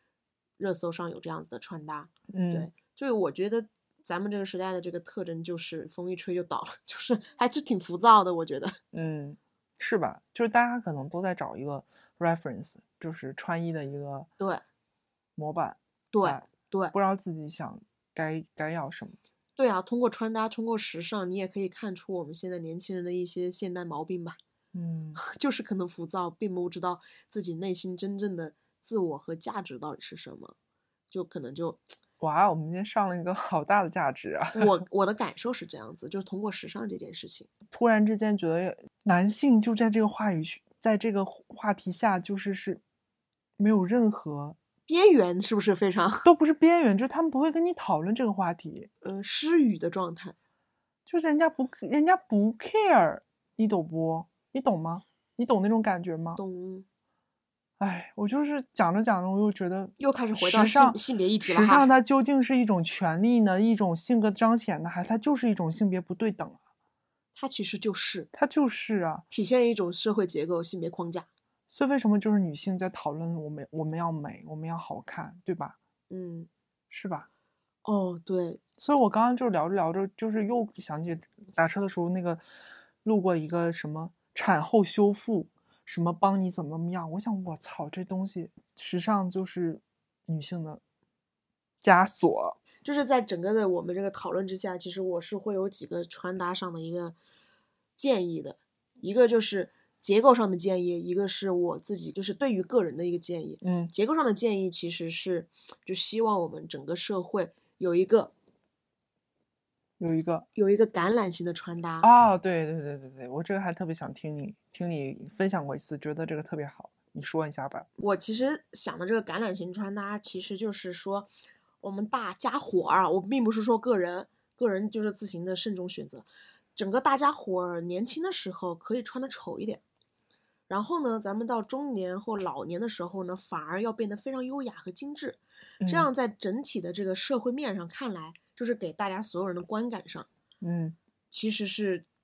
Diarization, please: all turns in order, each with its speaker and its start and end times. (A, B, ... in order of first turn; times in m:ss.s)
0:00.6-0:08.8 A
0:02.3-0:02.7 B
0:08.9-0:14.3 B
0:15.4-0:19.2 B
0:16.1-0:16.9 A
0:19.6-0:24.4 A
0:24.7-0:25.2 B
0:25.2-0:30.5 A
0:31.1-0:31.8 A
0:32.2-0:34.8 B
0:34.5-0:37.5 A
0:37.7-0:42.8 B
0:43.6-0:44.6 B
0:44.9-0:46.3 A
0:46.2-0:48.9 B
0:49.0-0:50.3 A
0:51.1-0:56.4 B
0:56.4-0:56.8 A
0:57.8-1:06.6 B
1:00.0-1:01.9 A
1:07.3-1:08.3 A
1:08.3-1:09.2 B
1:09.3-1:11.3 A
1:11.7-1:15.8 B
1:16.1-1:16.5 A
1:16.9-1:17.3 B
1:17.8-1:18.6 A
1:18.8-1:22.4 B
1:23.0-1:30.8 B
1:31.8-1:32.6 B
1:32.8-1:37.2 A
1:38.0-1:48.3 A
1:43.6-1:43.9 B
1:50.0-1:50.4 B
1:50.5-1:52.1 A
1:52.0-1:57.9 B
1:58.0-2:01.3 A
2:01.8-2:09.8 A
2:10.7-2:20.3 A
2:15.8-2:16.1 B
2:20.6-2:21.0 B
2:21.3-2:22.0 A